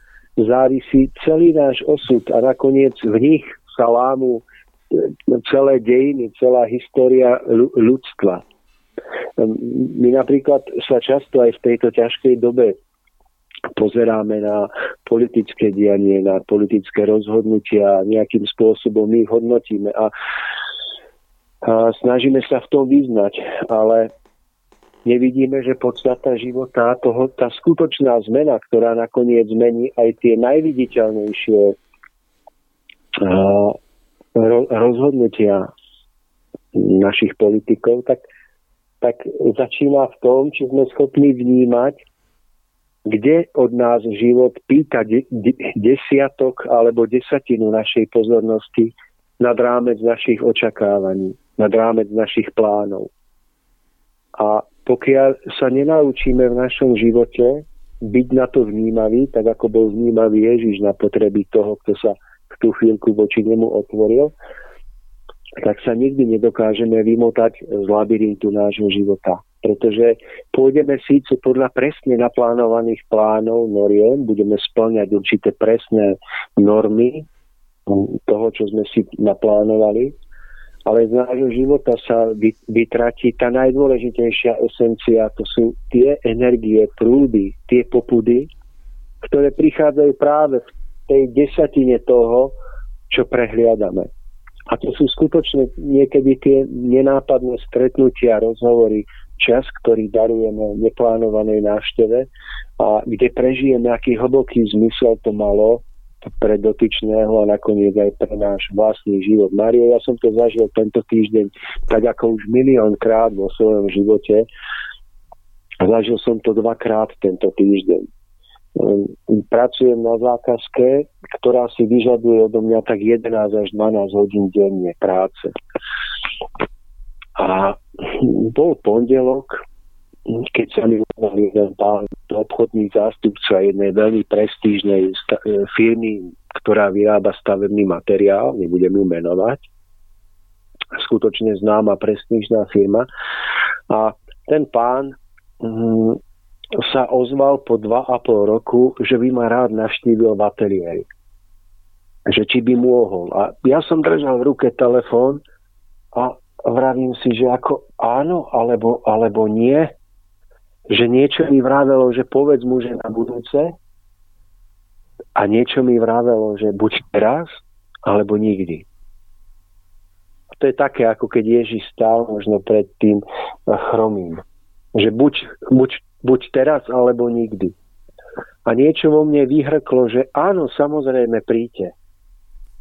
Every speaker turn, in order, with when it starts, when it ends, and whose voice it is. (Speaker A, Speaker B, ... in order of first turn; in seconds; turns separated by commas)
Speaker A: 0.4-8.4, Speaker A: 9.4-12.8, Speaker A: 13.7-20.1, Speaker A: 21.6-24.1, Speaker A: 25.1-31.8, Speaker A: 33.2-33.8, Speaker A: 34.4-35.7, Speaker A: 36.7-38.2, Speaker A: 39.0-42.0, Speaker A: 43.1-53.1, Speaker A: 54.4-64.3, Speaker A: 65.6-77.3, Speaker A: 77.9-80.2, Speaker A: 80.9-88.5, Speaker A: 89.2-92.5, Speaker A: 93.1-94.1, Speaker A: 94.7-102.3, Speaker A: 102.8-105.8, Speaker A: 106.4-114.5, Speaker A: 115.8-118.1, Speaker A: 118.8-125.5, Speaker A: 127.4-129.6, Speaker A: 130.3-139.7, Speaker A: 140.9-143.1, Speaker A: 143.9-146.2, Speaker A: 146.8-151.1, Speaker A: 152.3-155.4, Speaker A: 156.1-159.9, Speaker A: 160.9-163.7, Speaker A: 165.4-168.9, Speaker A: 170.6-174.4, Speaker A: 174.9-177.7, Speaker A: 178.7-181.9